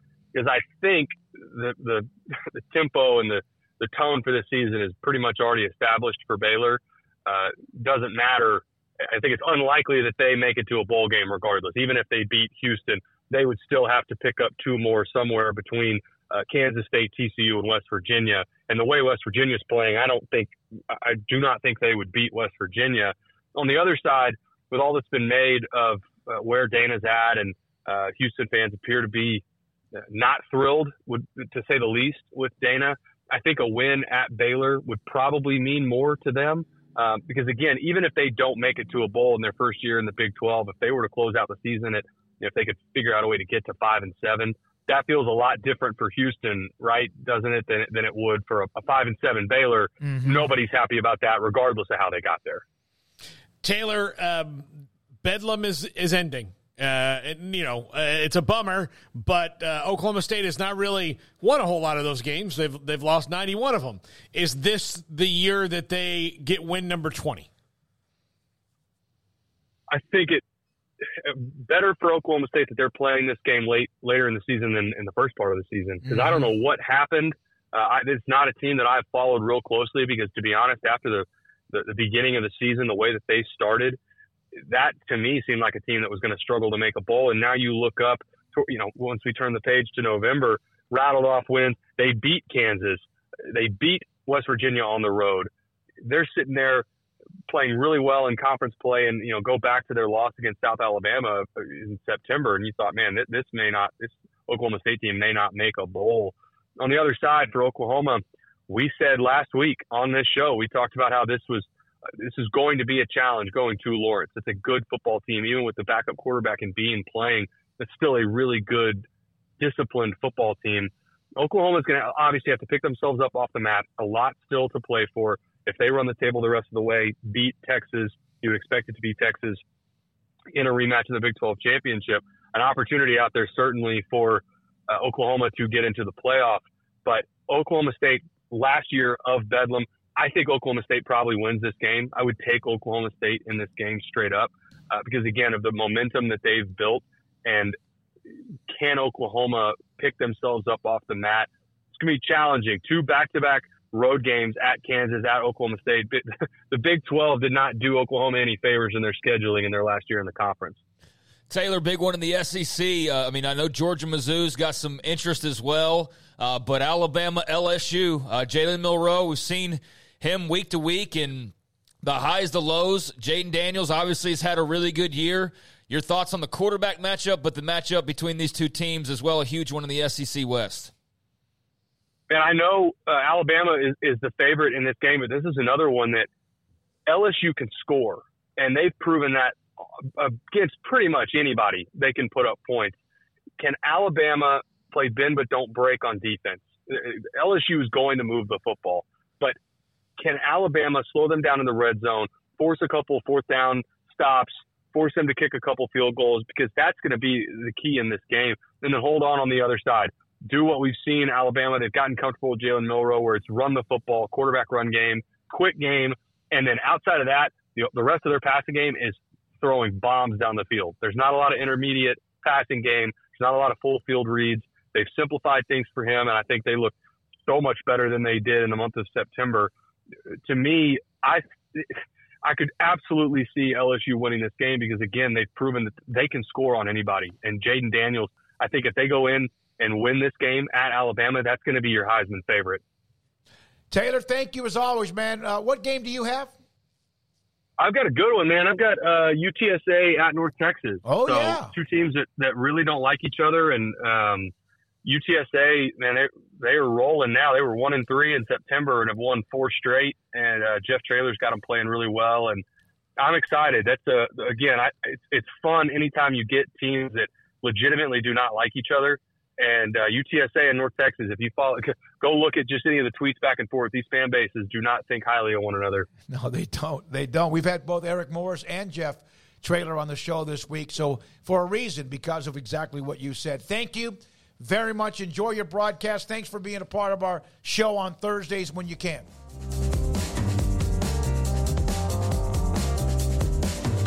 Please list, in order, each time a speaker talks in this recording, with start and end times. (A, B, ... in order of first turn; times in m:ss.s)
0:00.3-0:29.4 A
0:30.0-0:52.6 A
0:50.0-0:50.5 B
0:53.6-0:54.7 C
0:55.2-1:07.5 C
1:09.9-1:10.4 A
1:11.2-1:24.0 A
1:16.1-1:16.5 B
1:24.6-1:35.5 A
1:36.0-1:36.8 A
1:37.5-1:51.7 A
1:52.2-1:59.0 A
1:59.6-2:09.6 A
2:10.5-2:27.8 A
2:28.7-2:40.8 A
2:41.5-3:00.9 D
3:02.3-3:06.3 A
3:07.1-3:12.9 A
3:13.6-3:19.6 A
3:20.2-3:47.0 A
3:47.5-3:49.7 A
3:50.4-4:02.8 A
4:03.9-4:06.5 B
4:07.8-4:14.5 A
4:11.0-4:11.7 B
4:15.0-4:22.6 A
4:23.2-4:36.1 A
4:36.3-4:49.3 B